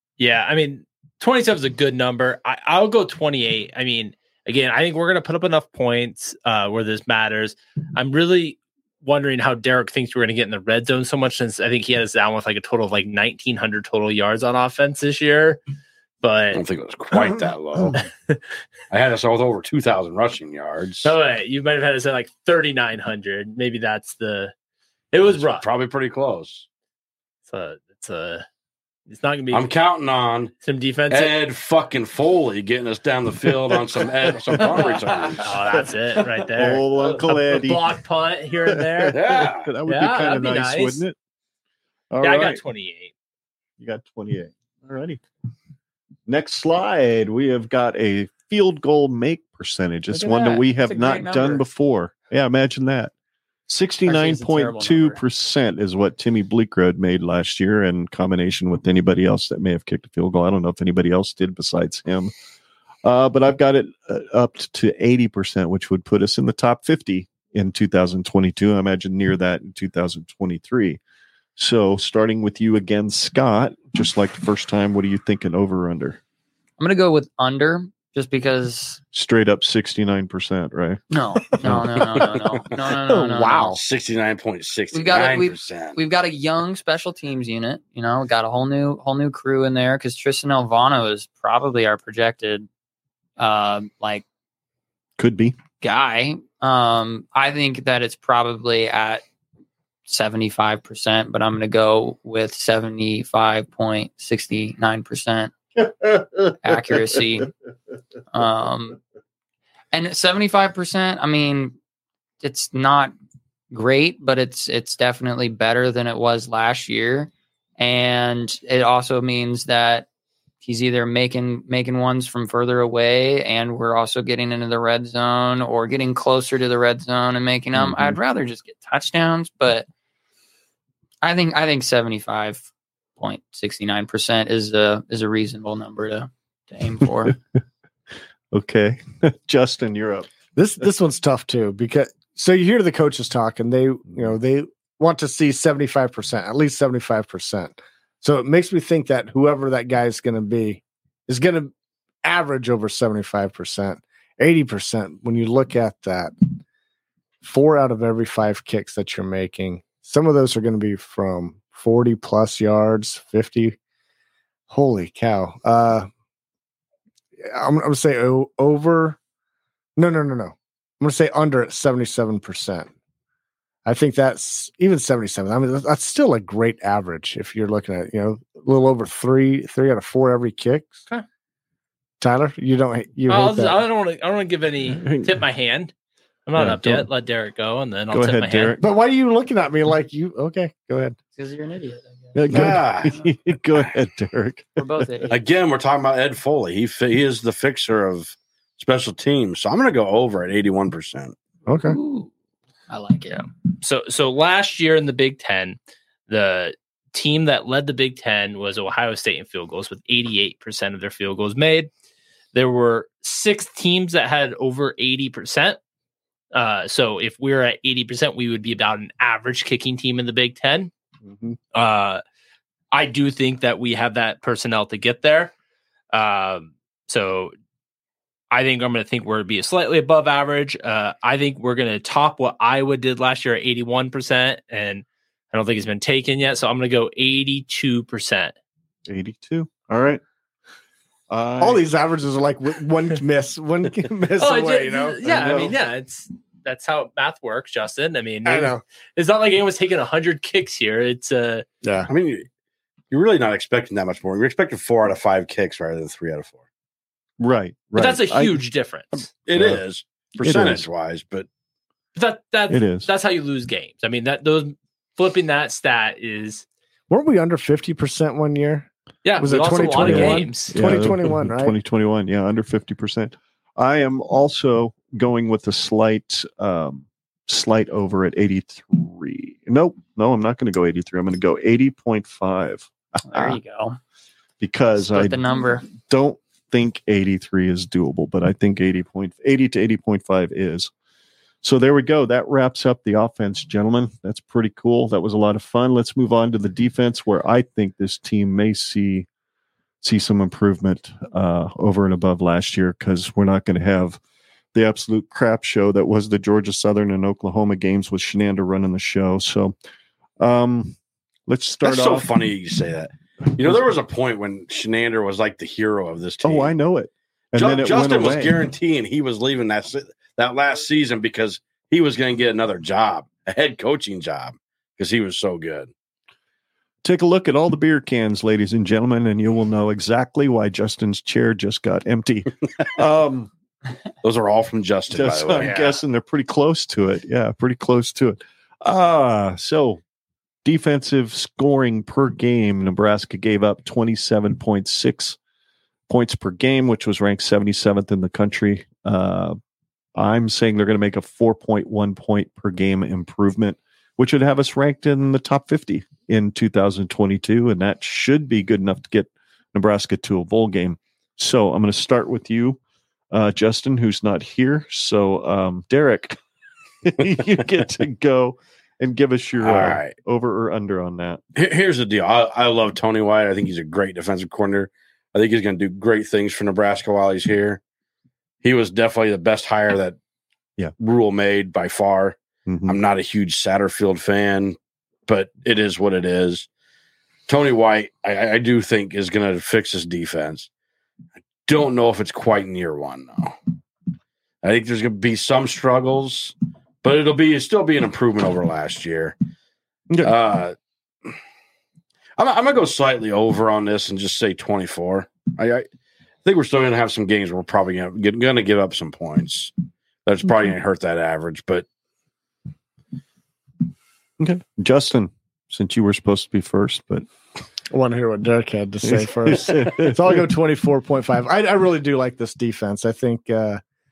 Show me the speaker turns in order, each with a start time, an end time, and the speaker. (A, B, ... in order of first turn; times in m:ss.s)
0:00.2-0:15.6 A
0:16.2-0:16.6 A
0:16.5-0:18.0 B
0:18.9-0:21.1 B
0:21.0-0:24.5 A
0:25.1-0:25.6 A
0:25.4-0:26.6 B
0:27.5-0:28.4 A
0:29.1-0:29.7 A
0:29.5-0:30.5 B
0:30.6-0:31.3 A
0:31.1-0:35.6 B
0:34.4-0:34.7 C
0:35.0-0:35.4 D
0:35.4-0:39.2 A
0:36.5-0:37.9 C
0:38.6-0:41.2 C
0:39.1-0:39.7 B
0:39.8-0:41.0 A
0:42.1-0:42.6 C
0:42.2-0:43.1 A
0:43.8-0:45.2 C
0:46.3-0:53.1 C
0:50.1-0:51.6 D
0:53.7-1:02.3 C
0:54.0-0:55.2 D
1:03.0-1:11.0 C
1:11.6-1:16.2 C
1:16.8-1:19.0 D
1:19.1-1:21.0 C
1:21.1-1:23.8 D
1:21.6-1:22.1 C
1:23.6-1:26.0 B
1:24.9-1:32.7 D
1:33.4-1:34.2 D
1:35.2-1:35.6 C
1:35.8-1:39.2 D
1:40.1-1:45.5 D
1:45.8-1:47.0 C
1:46.6-1:47.5 D
1:48.3-1:49.0 D
1:49.9-1:51.8 D
1:52.4-1:53.1 D
1:53.7-2:00.1 D
2:00.6-2:09.8 D
2:07.8-2:08.2 C
2:11.2-2:12.7 D
2:13.2-2:17.4 D
2:18.5-2:20.3 C
2:20.5-2:31.7 E
2:32.2-2:36.3 E
2:37.4-2:43.8 E
2:44.7-2:46.1 E
2:47.4-2:49.2 E
2:50.0-2:52.9 E
2:53.8-3:01.0 E
3:02.2-3:03.8 E
3:03.3-3:05.9 A
3:04.9-3:05.4 C
3:06.5-3:08.8 A
3:06.6-3:07.1 C
3:08.1-3:08.8 C
3:08.8-3:11.2 E
3:11.4-3:12.4 D
3:12.3-3:15.3 C
3:12.5-3:13.2 B
3:14.8-3:15.4 D
3:15.3-3:21.3 B
3:21.6-3:22.0 E
3:21.8-3:22.3 D
3:22.9-3:23.4 D
3:23.3-3:25.8 A
3:26.3-3:31.9 A
3:32.5-3:35.8 A
3:36.5-3:40.9 A
3:41.7-3:42.2 A
3:42.9-3:45.5 A
3:46.1-3:47.5 A
3:48.5-3:58.5 A
3:59.1-4:00.2 C
4:01.3-4:01.8 C
4:01.6-4:05.2 E
4:04.4-4:11.6 A
4:05.3-4:05.7 C
4:08.4-4:08.8 E
4:11.8-4:12.1 E
4:12.1-4:12.5 B
4:13.1-4:16.6 B
4:17.4-4:18.6 C
4:17.9-4:19.3 A
4:19.4-4:21.5 B
4:19.5-4:19.8 C
4:20.4-4:20.8 C
4:22.2-4:26.6 A
4:22.7-4:23.1 C
4:27.1-4:28.9 E
4:29.2-4:30.7 A
4:29.4-4:31.7 E
4:30.0-4:43.6 C
4:43.2-4:44.0 D
4:44.6-4:50.9 C
4:45.0-4:45.9 D
4:51.6-4:59.3 C
5:00.0-5:04.2 C
5:04.7-5:09.8 C
5:10.4-5:12.3 C
5:11.8-5:16.7 B
5:16.4-5:18.6 C
5:17.5-5:25.9 B
5:27.0-5:33.5 C
5:34.2-5:35.8 B
5:35.1-5:40.0 C
5:35.6-5:36.0 A
5:40.6-5:45.4 C
5:46.1-5:49.6 C
5:50.2-6:02.8 C
6:03.3-6:06.4 C
6:07.0-6:11.4 C
6:09.6-6:10.1 B
6:11.5-6:17.8 B
6:18.6-6:20.2 B
6:21.0-6:26.7 B
6:22.6-6:23.0 C
6:27.5-6:30.7 B
6:31.6-6:33.6 B
6:34.6-6:39.4 B
6:40.2-6:40.8 B
6:42.4-6:45.8 B
6:46.4-6:49.7 B
6:50.2-6:51.8 B
6:54.4-6:57.2 C
6:57.9-7:03.8 E
6:59.0-7:00.5 C